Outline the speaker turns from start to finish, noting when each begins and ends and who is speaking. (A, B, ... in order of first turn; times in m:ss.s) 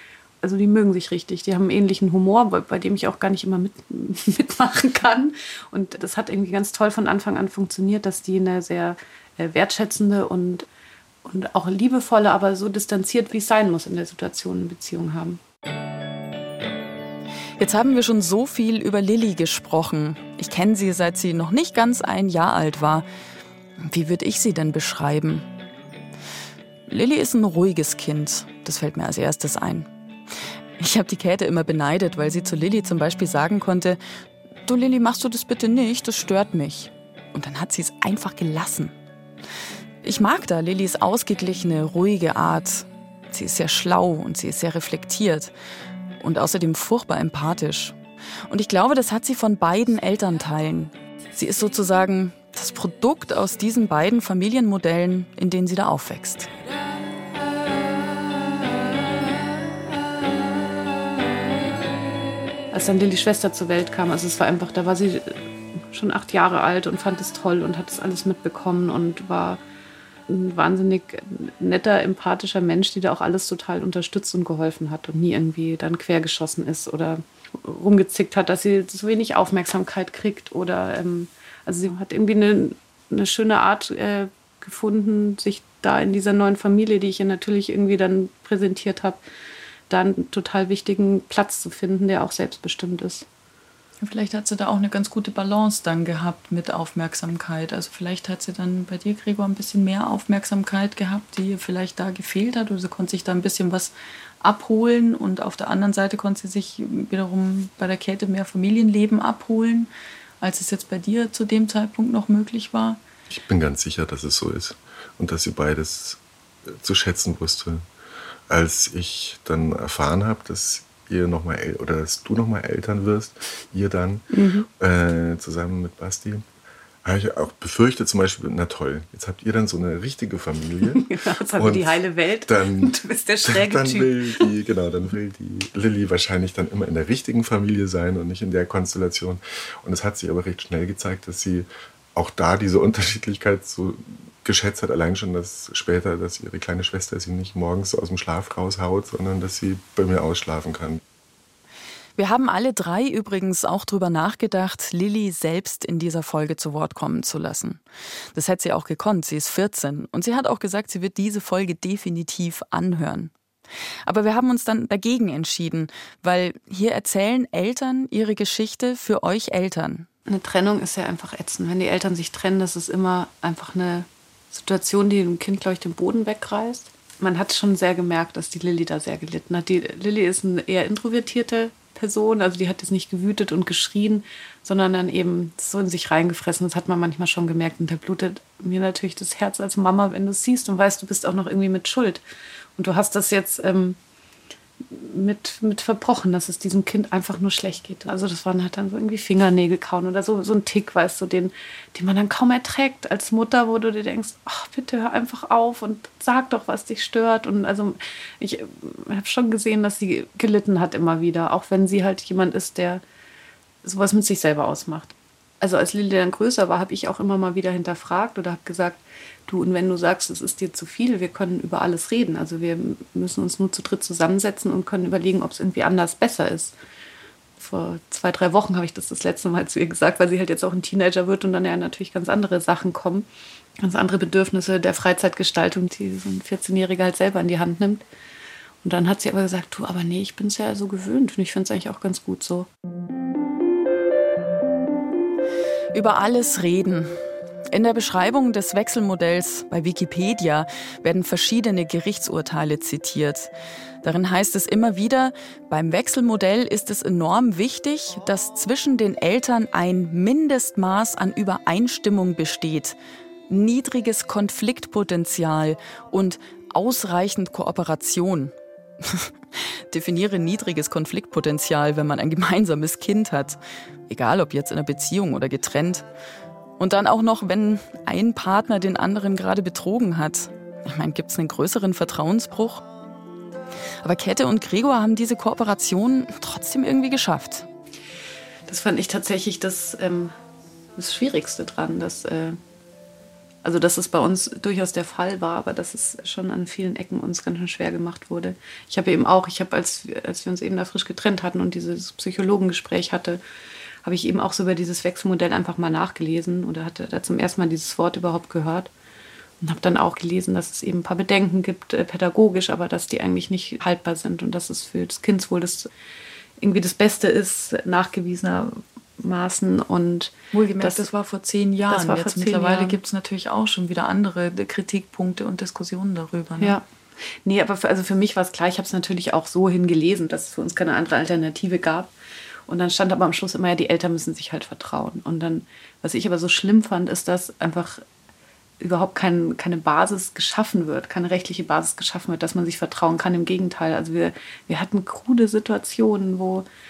0:00.4-0:10.6 A
0:11.2-0:15.4 A
0:17.6-0:23.0 B
0:23.8-0:25.4 B
0:26.9-0:29.9 B
0:30.8-0:34.0 B
0:34.6-0:38.9 B
0:40.0-0:45.5 B
0:46.2-0:48.0 B
0:48.5-0:56.5 B
1:02.7-1:05.4 A
1:05.9-1:09.6 A
1:10.3-1:29.2 A
1:29.9-1:33.2 A
1:34.0-1:49.9 B
1:50.4-1:53.0 B
1:53.3-1:57.8 C
1:58.5-2:06.4 C
2:04.3-2:04.7 A
2:07.0-2:12.9 C
2:11.0-2:14.4 A
2:13.4-2:31.0 C
2:32.2-2:37.8 B
2:38.3-2:43.3 B
2:44.0-2:50.1 B
2:50.3-3:12.2 A
3:12.8-3:14.0 A
3:14.8-3:33.0 A
3:33.8-3:46.7 A
3:47.6-3:53.3 A
3:53.8-3:58.0 A
3:58.8-4:02.7 A
4:05.9-4:07.2 B
4:07.7-4:13.5 B
4:14.0-4:23.0 B
4:23.5-4:33.6 B
4:34.1-4:36.0 B
4:36.8-4:42.8 B
4:44.0-4:47.6 B
4:48.7-4:50.3 A
4:51.0-4:52.6 A
4:53.6-5:03.4 A
5:04.0-5:08.9 A
5:09.6-5:15.9 A
5:16.6-5:21.1 A
5:20.5-5:26.8 B
5:21.9-5:23.0 A
5:27.4-5:32.1 A
5:32.7-5:38.0 A
5:38.8-5:46.6 A